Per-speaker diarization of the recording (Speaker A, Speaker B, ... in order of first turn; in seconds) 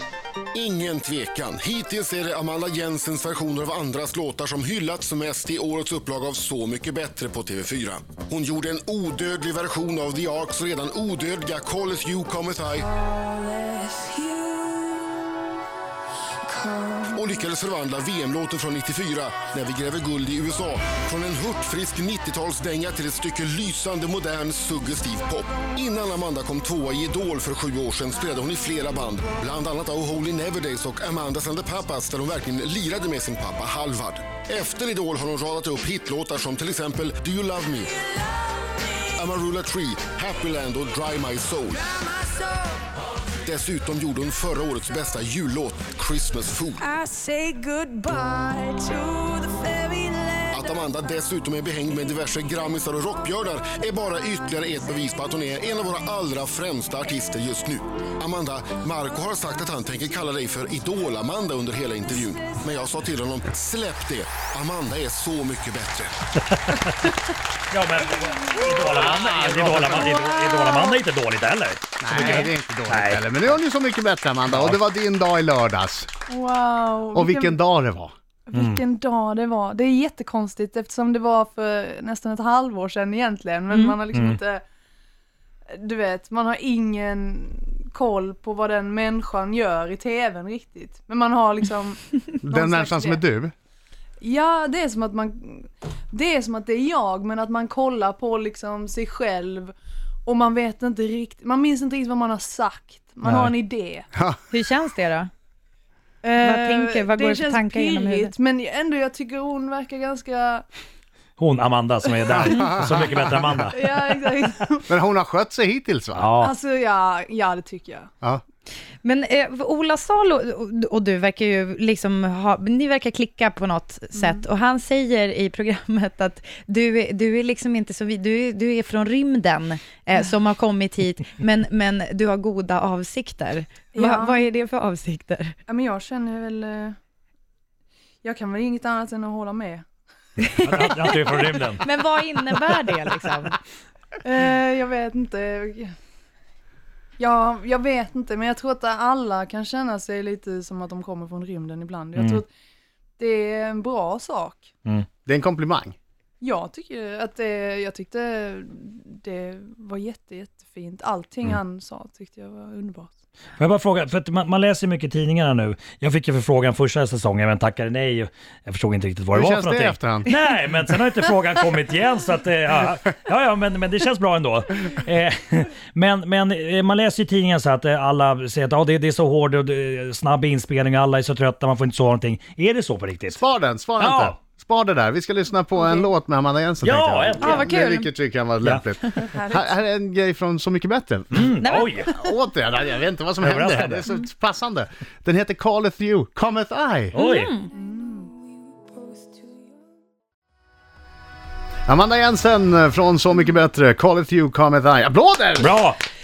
Speaker A: 0.5-12.9, 17.1-38.0, 39.1-41.9, 43.4-46.9, 50.5-66.1
Speaker B: 13.4-15.0, 16.6-16.9, 47.0-50.5
Speaker C: 67.7-73.4, 74.5-74.8, 78.5-78.8, 84.1-84.4, 103.2-103.5, 111.4-113.8, 116.2-116.5, 140.6-141.8, 152.2-152.4, 163.6-183.4, 184.0-184.3, 186.8-187.7, 188.6-189.2, 191.3-192.1, 193.4-194.0, 197.1-197.5, 205.6-206.0
Speaker D: 68.8-70.3, 72.0-76.1, 77.1-78.1, 92.4-93.5, 112.3-113.2, 114.9-116.3, 155.2-156.0, 169.3-170.3, 183.3-197.2, 201.9-205.8
Speaker E: 72.1-72.5, 104.5-105.3, 106.4-108.3, 119.0-135.6, 140.4-143.6, 187.4-188.1, 191.6-192.0, 197.2-197.7
Speaker F: 76.3-77.6, 78.5-84.6, 85.7-93.2, 94.2-99.7, 100.2-104.1, 106.2-110.6, 113.7-114.8, 116.4-118.1, 124.2-124.4, 133.9-134.4, 135.7-136.9, 138.2-139.8, 144.2-145.9, 147.2-152.5, 153.2-154.7, 156.4-163.1, 189.3-189.7, 197.7-198.3